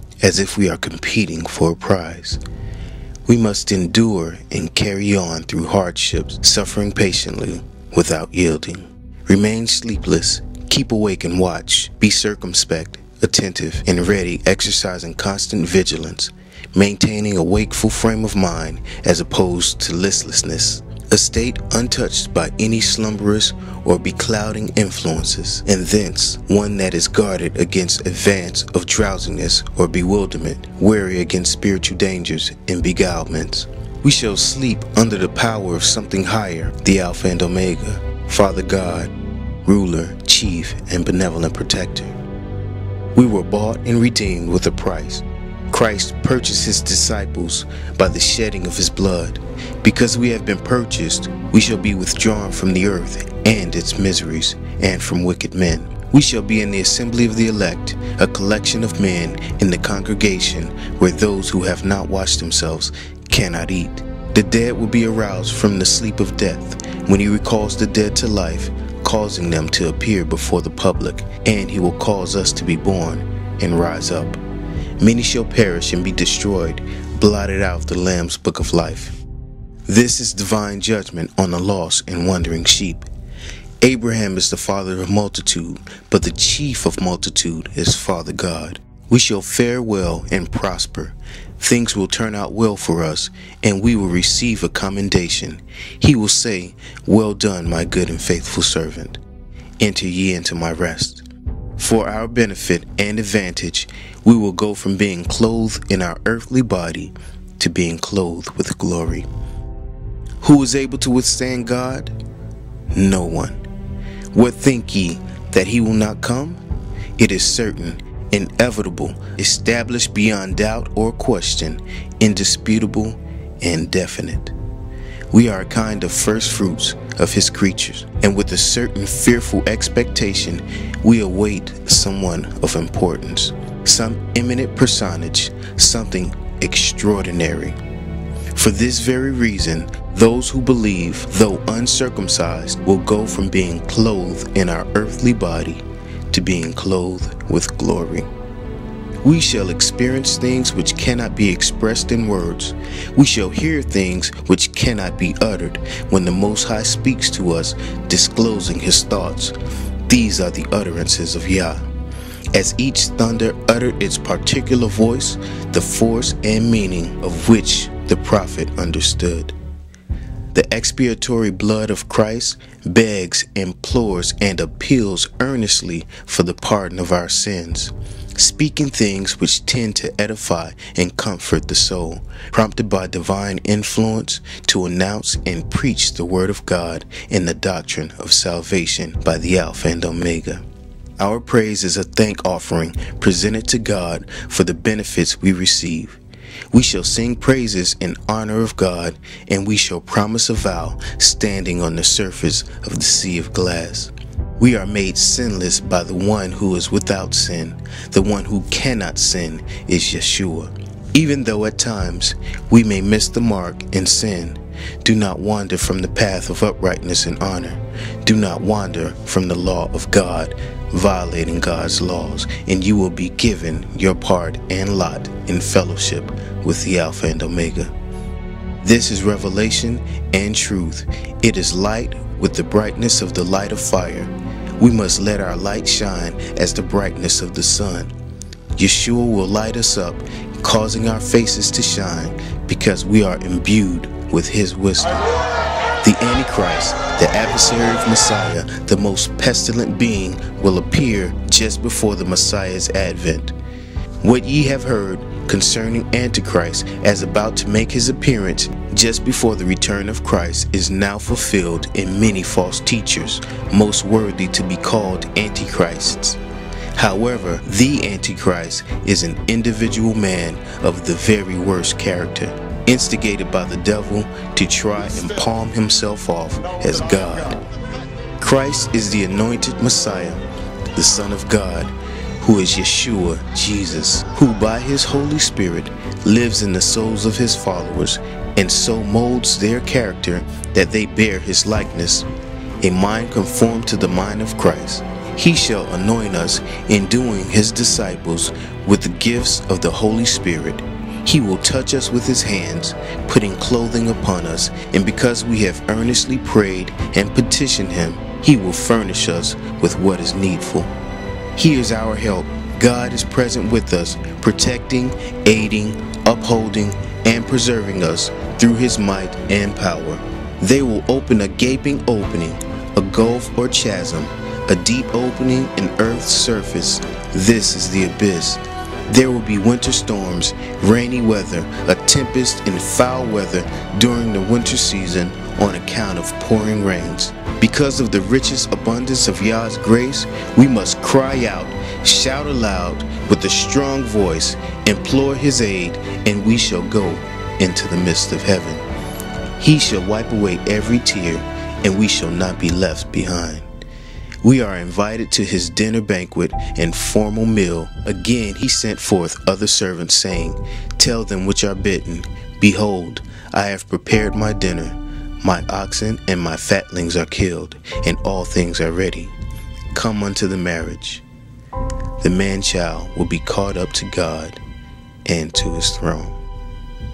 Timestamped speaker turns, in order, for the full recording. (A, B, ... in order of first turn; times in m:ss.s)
0:00.2-0:02.4 A
0:03.3-0:39.1 A
0:39.6-0:42.1 A
0:43.2-1:14.4 A
1:15.0-1:19.2 A
1:19.9-1:23.1 A
1:23.8-1:39.2 A
1:39.8-1:41.2 A
1:41.8-1:49.2 A
1:50.4-1:52.1 A
1:52.9-1:53.6 A
1:54.3-1:56.6 A
1:57.2-2:04.5 A
2:05.3-2:17.8 A
2:18.5-2:28.3 A
2:29.2-2:39.6 A
2:40.1-2:41.8 A
2:42.5-2:49.5 A
2:50.5-3:10.6 A
3:11.2-3:16.2 A
3:16.7-3:47.9 A
3:48.8-3:58.1 A
3:58.8-4:05.4 A
4:06.0-4:13.5 A
4:14.2-4:26.4 A
4:27.0-4:37.6 A
4:38.4-4:40.4 A
4:41.0-4:52.3 A
4:52.8-5:10.9 A
5:11.6-5:48.9 A
5:49.6-5:53.7 A
5:54.4-6:09.3 A
6:09.9-6:11.2 A
6:12.2-6:14.6 A
6:15.2-6:16.4 A